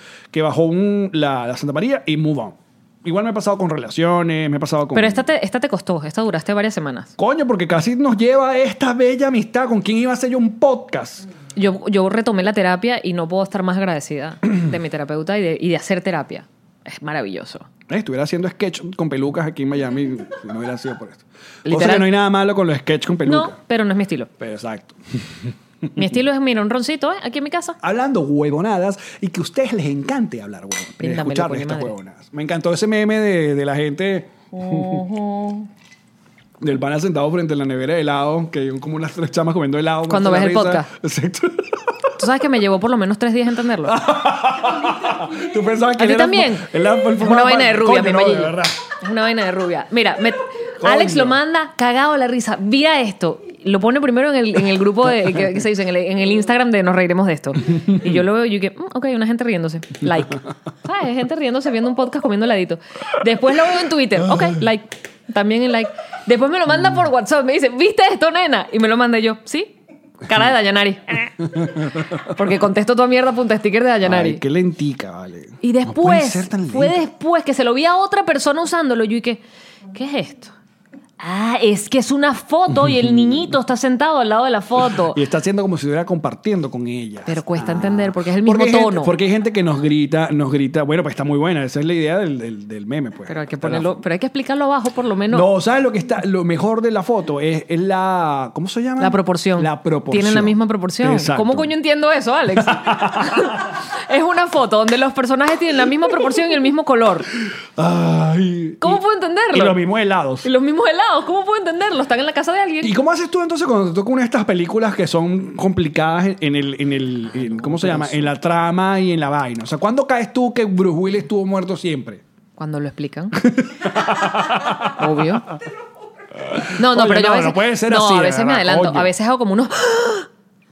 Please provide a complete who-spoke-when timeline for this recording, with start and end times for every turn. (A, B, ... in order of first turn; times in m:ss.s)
0:00.3-0:05.3 A
0:04.9-0:07.1 B
0:07.2-0:11.3 A
0:11.6-0:17.7 B
0:17.9-0:23.6 A
0:21.6-0:22.1 B
0:23.2-0:24.3 B
0:24.4-0:25.5 A
0:26.0-0:27.8 B
0:27.8-0:35.0 A
0:31.0-0:31.9 B
0:34.5-0:35.7 B
0:36.6-0:42.0 A
0:40.1-0:40.9 B
0:42.2-0:44.0 B
0:43.8-0:48.8 A
0:46.0-1:09.7 B
0:50.8-0:51.4 A
1:10.2-1:11.7 B
1:11.5-1:12.3 A
1:12.2-1:14.4 B
1:14.0-1:17.0 A
1:15.6-1:19.4 B
1:19.9-1:20.5 B
1:21.2-1:25.2 B
1:22.8-1:23.5 A
1:24.9-1:34.0 A
1:27.3-1:29.1 B
1:33.3-1:35.5 B
1:35.3-1:41.7 A
1:39.0-1:47.3 B
1:42.6-1:43.7 A
1:47.8-1:50.5 A
1:48.8-1:49.8 B
1:50.4-1:52.9 B
1:52.8-2:02.2 A
1:57.5-1:58.3 B
2:02.6-2:03.4 B
2:03.4-2:05.3 A
2:04.8-2:05.5 B
2:06.3-2:09.1 A
2:06.8-2:10.3 B